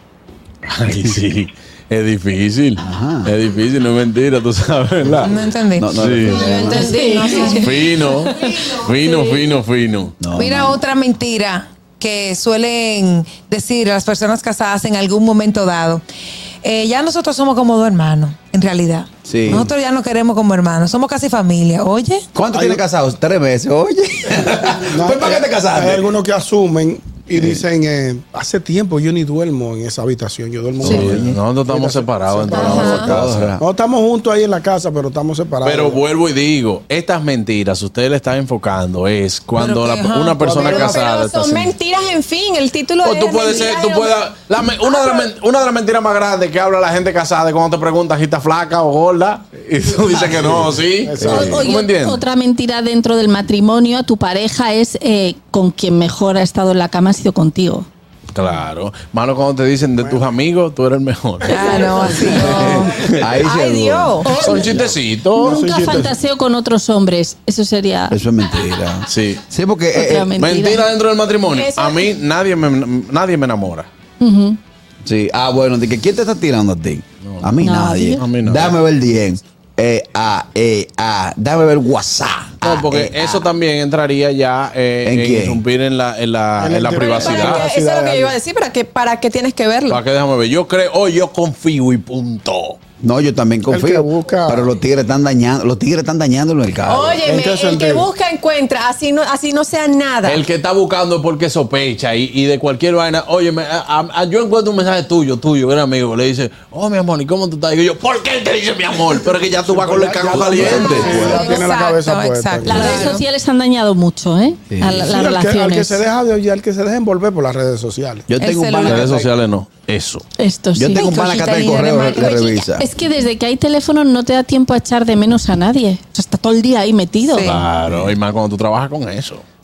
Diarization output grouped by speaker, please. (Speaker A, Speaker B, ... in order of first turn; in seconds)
Speaker A: 0.7-5.3, 6.0-6.5, 7.6-10.2, 30.8-33.5, 35.6-41.7, 43.0-52.2, 58.3-63.4, 64.3-65.6, 69.1-69.4, 70.4-73.9, 77.2-77.6, 78.2-78.8, 82.6-87.7, 89.9-92.8, 100.2-111.3, 118.8-120.2, 127.4-129.4
Speaker B: 2.8-3.3, 5.0-6.9, 10.2-10.8, 19.2-19.7, 22.3-26.1, 27.3-27.6, 30.8-31.4, 32.6-33.6, 51.2-51.7, 62.4-64.9, 68.1-70.3, 75.0-83.5, 85.0-85.6, 93.0-97.2, 110.3-111.5, 114.7-115.2, 118.3-119.3, 120.8-122.9, 127.9-128.1
Speaker C: 5.1-7.8, 10.3-16.0, 16.6-22.3, 39.6-40.6, 61.5-62.6, 110.6-113.2, 118.4-119.1, 120.9-122.6, 127.2-127.7
Speaker D: 6.3-7.5, 8.1-8.7, 32.5-33.2, 40.6-44.2, 44.8-45.3, 61.8-64.4, 71.5-72.1, 87.0-90.0, 96.8-100.4
Speaker E: 6.6-7.6, 9.0-9.3, 51.3-57.9, 62.2-62.7, 64.2-64.7, 65.5-68.2, 69.9-70.8, 74.2-74.6, 77.6-78.2, 112.7-116.0, 120.4-127.5
Speaker F: 22.5-22.8, 24.9-36.0, 40.6-41.0, 50.1-51.6, 60.0-60.3, 61.5-62.3, 65.3-66.2, 86.6-88.4, 93.7-94.7, 97.2-98.1, 109.6-113.2, 115.0-118.3